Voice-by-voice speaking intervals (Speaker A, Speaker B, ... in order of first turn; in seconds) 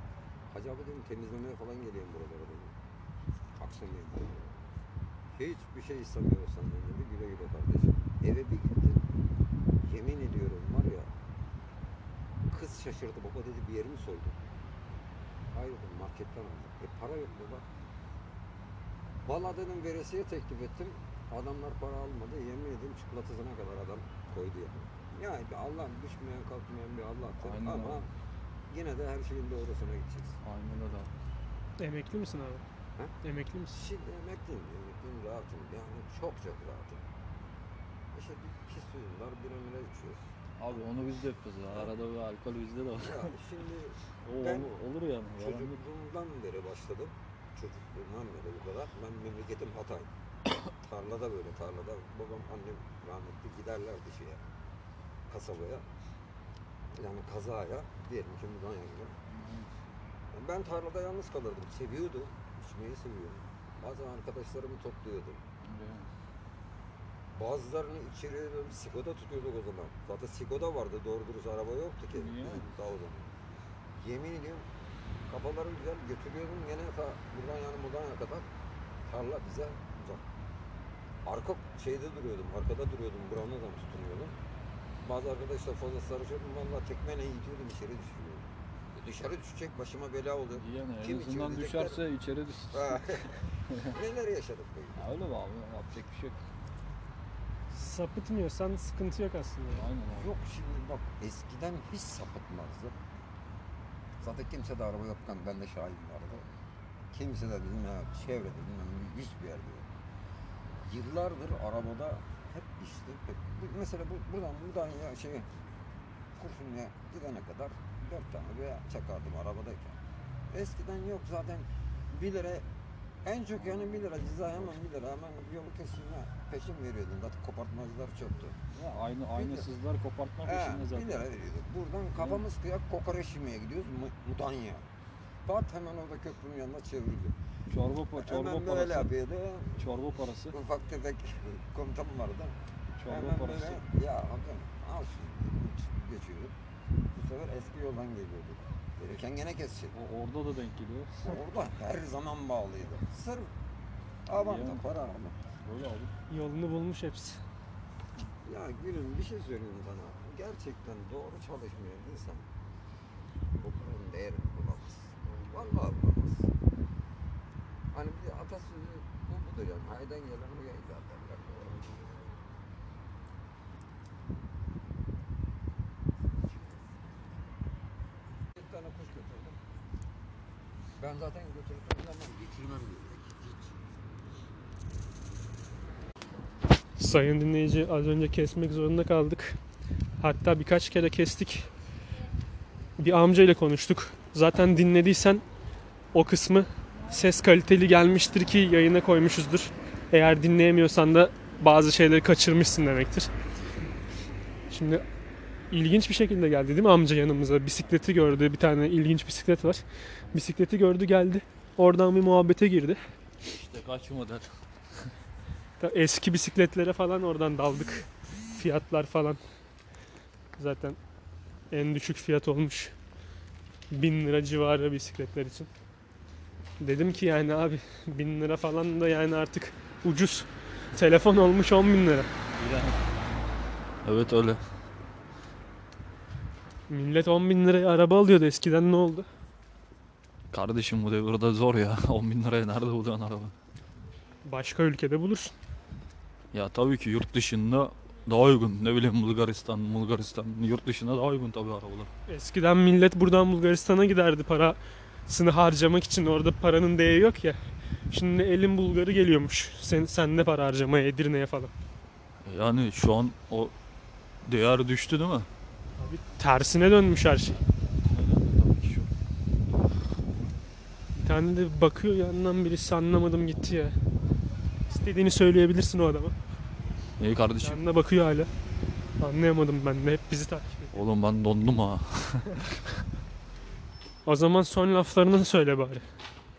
Speaker A: 0.5-2.7, 3.6-4.5, 5.3-9.1, 9.8-11.1, 12.5-14.4, 15.5-17.6, 19.2-28.1, 28.7-30.4, 33.7-37.0, 38.1-40.2, 43.0-44.8, 45.4-50.1, 50.7-54.4, 55.3-55.9, 57.0-59.2, 60.3-65.4, 67.3-73.3, 74.0-74.7, 75.3-78.5, 79.1-80.2, 81.2-84.4, 85.0-92.0, 92.7-95.0, 100.1-103.0, 104.2-106.5, 107.1-109.9, 110.8-115.5, 116.4-120.0, 120.5-122.7, 123.2-128.6, 129.3-129.7, 130.4-134.9, 135.5-137.3, 138.2-139.9, 140.5-146.5, 147.1-149.9, 151.2-153.5, 154.3-155.4, 158.4-162.4, 163.6-166.5, 167.9-172.1, 178.6-179.6, 181.0-183.8
Speaker B: 27.4-28.1, 30.4-31.1, 40.6-43.3, 44.2-45.8, 59.3-59.7, 65.6-66.1, 72.1-72.7, 90.5-94.0, 95.0-96.5, 99.7-100.3, 128.7-131.3, 132.2-132.4, 137.7-139.1, 139.8-140.6, 143.0-143.8, 149.9-151.3, 154.3-154.8, 155.7-156.1, 165.2-165.8, 213.5-214.6, 232.5-233.1, 234.0-234.6, 240.5-243.5, 246.5-252.1, 262.4-263.7, 264.4-265.5, 268.1-269.1, 277.2-277.8, 280.9-282.8
Speaker C: 31.8-32.6, 33.2-33.8, 97.7-99.8, 156.3-157.4, 187.0-189.6, 190.2-191.7, 193.0-195.4, 196.1-203.3, 204.7-205.0, 205.7-213.0, 215.8-219.4, 220.6-221.0, 221.7-222.9, 223.9-225.7, 226.8-232.3, 236.9-239.3, 244.4-245.5, 252.3-257.6, 258.1-261.7, 266.0-267.6, 271.2-274.0, 274.9-276.4, 277.6-278.5, 279.2-281.0, 284.2-286.1